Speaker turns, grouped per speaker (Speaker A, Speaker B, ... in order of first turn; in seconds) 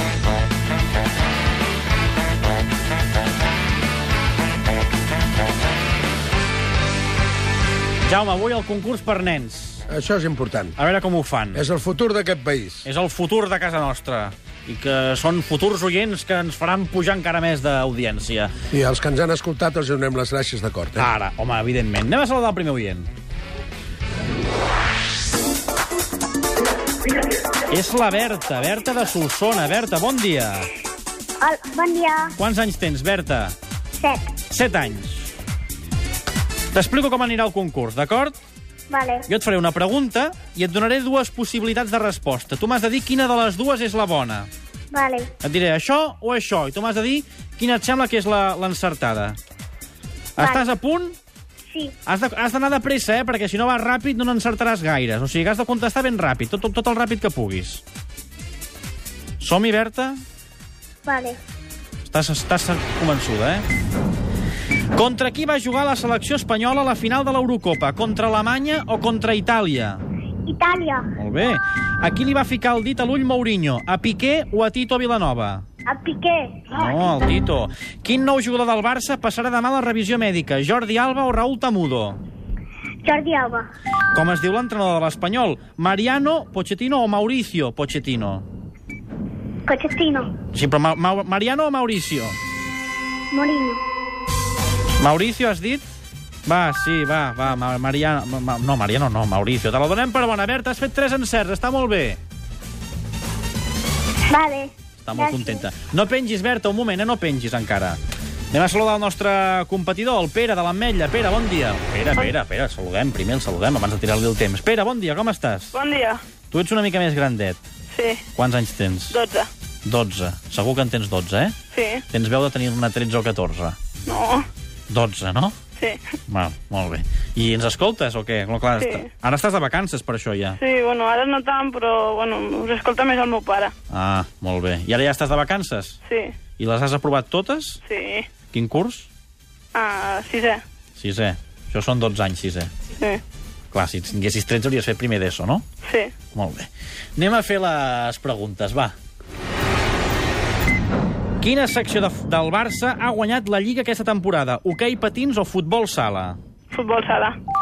Speaker A: 8.0-9.8, 10.8-11.6, 12.8-18.5, 20.9-23.1, 27.7-30.7, 32.4-33.5, 34.5-35.4, 36.7-38.4, 39.3-44.5, 45.4-49.4, 50.4-51.1, 52.0-57.8, 59.4-60.2, 62.0-63.6, 64.9-70.0, 71.2-75.6, 76.7-82.2, 84.1-88.5, 90.5-92.4, 95.0-95.9, 96.5-102.2, 105.0-108.0, 108.5-115.7, 116.5-117.6, 118.3-119.2, 119.8-121.5, 122.1-123.8, 124.9-125.5, 126.3-130.6, 133.9-136.0, 136.6-137.8, 138.5-139.1, 140.9-142.7, 143.7-145.6, 146.3-148.9, 151.4-156.4
Speaker B: 9.9-10.8, 11.5-12.8, 18.7-21.1
Speaker C: 31.4-32.3, 34.0-34.3, 38.9-39.3, 44.9-45.3, 50.4-50.6, 61.0-61.4, 70.5-71.0, 75.9-76.7, 83.0-83.7, 89.7-90.3, 93.3-93.8, 104.3-105.6
Speaker D: 115.7-116.2, 117.9-118.2, 119.1-119.5, 121.7-122.0, 124.0-124.5, 128.8-129.1, 130.6-133.7, 136.1-136.3, 137.8-138.3, 139.7-140.6, 145.8-146.1, 156.7-157.3